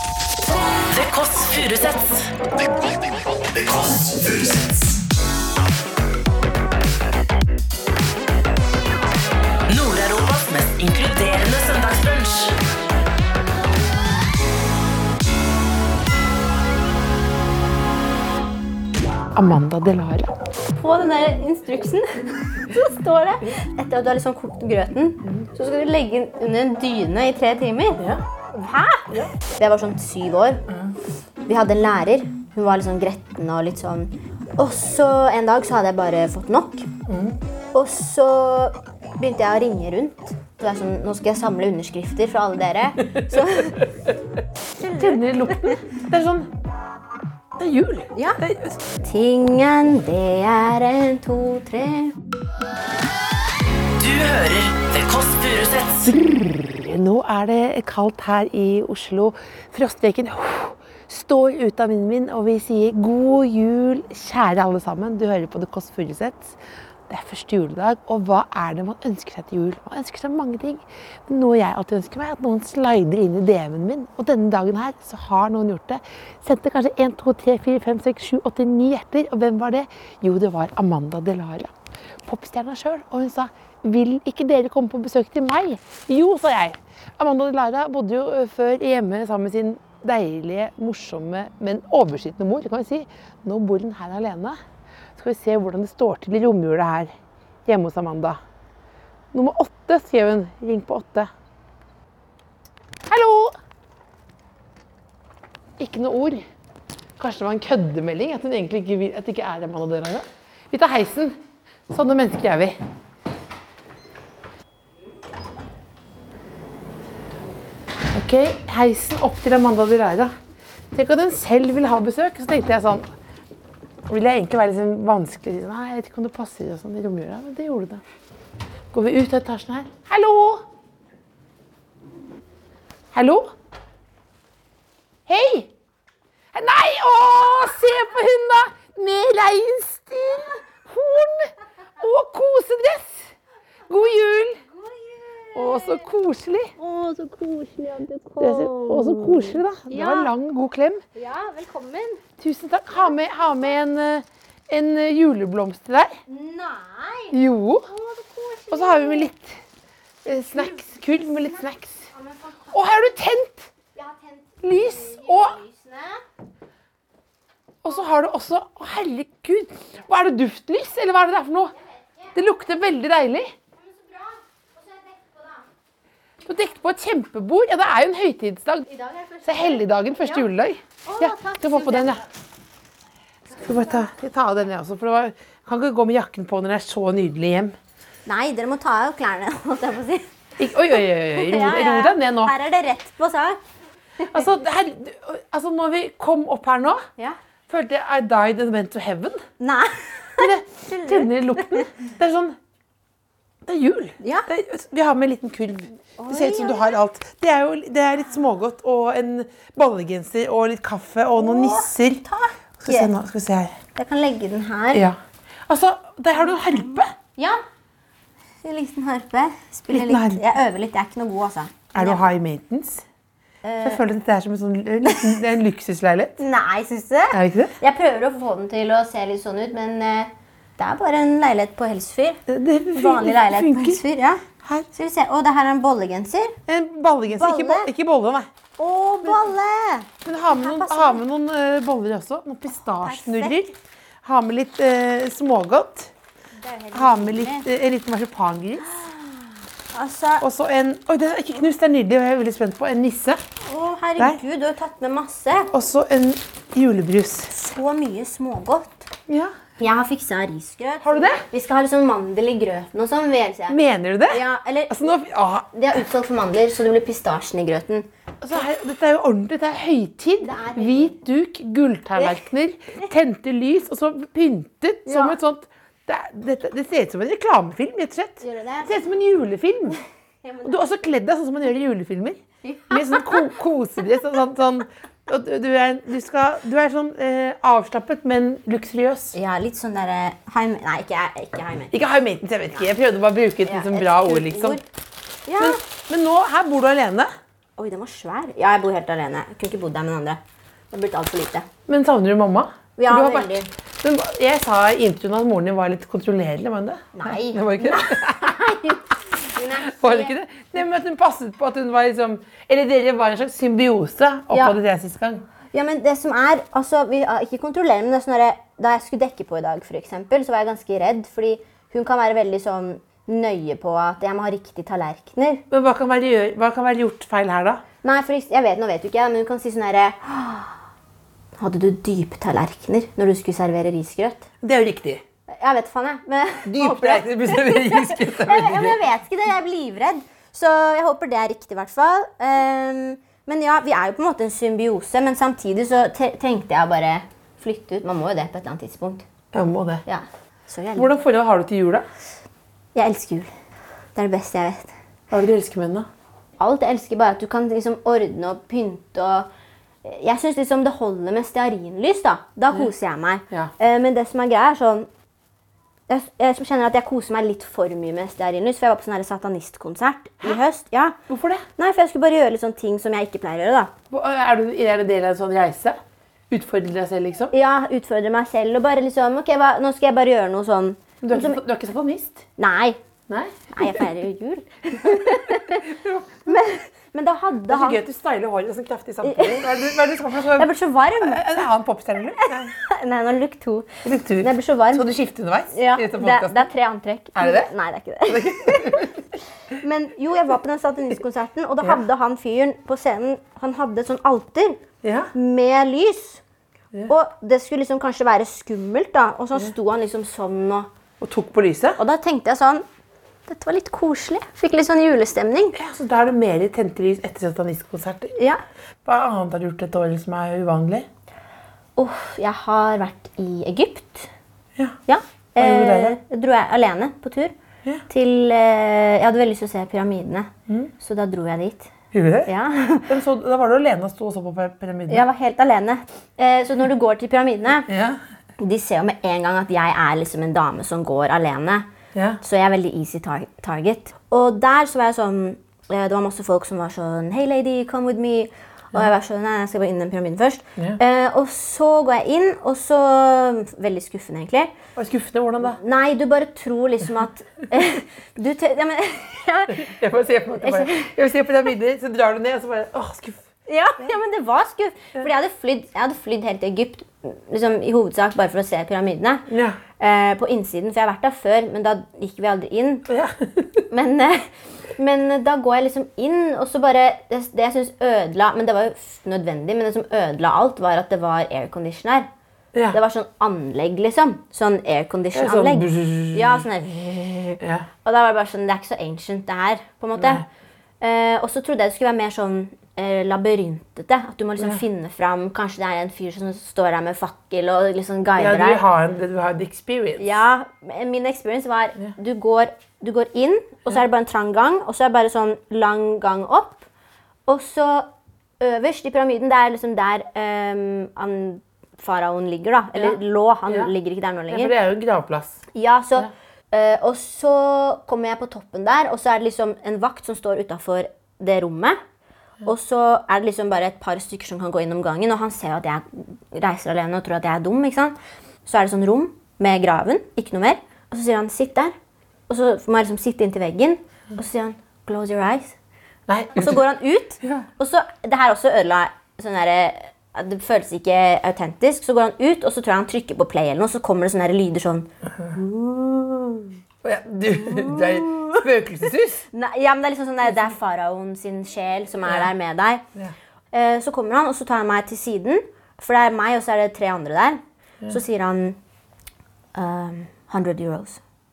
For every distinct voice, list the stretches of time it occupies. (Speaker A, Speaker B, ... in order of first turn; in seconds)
Speaker A: 0.9-5.0, 9.7-12.6, 54.0-56.1
Speaker B: 19.4-20.3, 28.0-28.2, 30.7-30.9, 37.1-37.4, 45.0-46.5, 47.6-48.8, 56.1-66.6, 67.1-81.7, 82.3-94.6, 95.2-97.2, 97.7-98.4, 99.3-101.3, 103.1-103.6, 105.8-106.5, 107.2-111.4, 111.9-112.8, 118.1-120.3, 120.9-123.1, 124.1-128.0, 128.9-130.6, 133.1-133.5, 135.3-135.7, 136.5-143.3, 143.9-144.6, 145.5-146.7, 148.4-151.0, 152.4-156.2, 157.3-157.9, 158.7-159.6, 160.2-162.1, 162.7-163.7, 164.6-165.6, 167.8-171.7, 172.3-173.5, 176.4-178.9, 179.4-182.2, 183.6-187.8, 190.6-192.5, 194.3-197.1, 197.7-199.4, 200.4-202.6, 203.7-212.2, 212.8-213.8, 215.7-217.1, 219.9-220.4, 221.9-223.1, 223.8-226.4, 227.3-227.8, 232.5-234.0, 234.6-234.9, 236.7-238.5, 240.2-243.7, 244.2-246.1, 246.9-248.9, 250.4-253.4, 255.7-257.5, 259.3-259.6, 261.0-261.4, 263.7-265.7, 268.4-280.0, 280.6-289.4, 291.9-294.8, 295.6-297.3, 301.9-308.6, 309.9-315.4, 325.7-327.8, 334.6-335.2, 336.6-339.0, 349.5-350.0, 350.9-352.1, 355.3-356.1, 371.3-371.6, 374.1-376.0, 376.5-377.5, 381.2-382.4, 383.3-384.1, 385.0-386.4, 387.7-392.8, 394.0-396.7, 397.4-397.7, 398.3-399.2, 405.0-405.3, 411.2-412.0, 415.8-418.4, 419.1-421.1, 425.6-426.2, 432.1-432.5, 433.1-435.2, 437.9-438.2, 442.1-442.4, 455.0-455.8, 459.7-463.5, 469.5-469.8, 473.1-473.7, 485.3-486.6, 487.6-487.9, 490.2-490.4, 498.4-500.3, 513.0-513.9, 514.5-515.6, 536.3-536.8, 537.4-537.7, 547.0-549.5, 552.3-552.5
Speaker C: 20.8-28.0, 28.6-30.6, 31.5-36.9, 37.7-43.8, 44.8-45.8, 48.1-48.4, 49.0-52.1, 144.7-146.1, 146.8-150.3, 151.2-152.2, 152.9-153.8, 156.3-159.3, 160.3-163.0, 163.9-166.2, 171.8-172.3, 173.8-175.6, 178.9-180.4, 181.1-182.2, 188.3-190.3, 191.3-193.6, 199.6-201.8, 204.2-204.5, 206.2-207.0, 211.4-213.1, 214.0-215.0, 217.4-217.6, 218.6-222.2, 223.6-224.0, 225.0-225.4, 226.4-232.4, 232.9-234.4, 234.9-236.6, 237.3-237.9, 238.8-241.2, 242.7-243.7, 246.6-247.7, 248.8-250.4, 253.6-255.7, 257.5-259.1, 259.8-263.8, 264.3-265.0, 265.7-268.1, 270.4-271.2, 272.1-272.4, 275.1-275.4, 278.4-278.9, 280.4-280.8, 282.6-283.5, 289.3-291.9, 293.7-294.8, 295.5-295.8, 297.8-300.4, 300.9-301.7, 303.0-303.7, 307.1-310.3, 314.5-314.8, 315.7-325.6, 328.0-330.8, 331.6-334.5, 335.5-349.2, 350.1-351.1, 352.9-353.5, 354.2-354.9, 356.6-359.5, 360.0-365.1, 366.1-371.2, 371.8-373.9, 377.5-381.6, 382.6-383.0, 383.7-385.9, 386.5-388.0, 389.2-389.6, 390.6-391.6, 392.5-393.9, 394.4-395.1, 395.7-399.1, 399.7-404.8, 405.3-406.4, 407.1-410.9, 412.0-412.9, 413.5-415.8, 422.0-424.3, 425.1-427.5, 428.1-431.9, 432.5-433.1, 435.1-437.9, 438.6-441.9, 442.4-454.7, 455.7-459.9, 460.6-461.1, 463.7-469.5, 470.0-473.1, 473.9-482.3, 482.9-490.5, 491.0-498.8, 500.2-506.9, 507.5-508.1, 508.6-514.7, 515.7-522.0, 522.6-531.9, 532.5-535.8, 536.6-546.7, 547.6-548.6, 549.5-553.0, 553.7-558.8, 559.7-561.2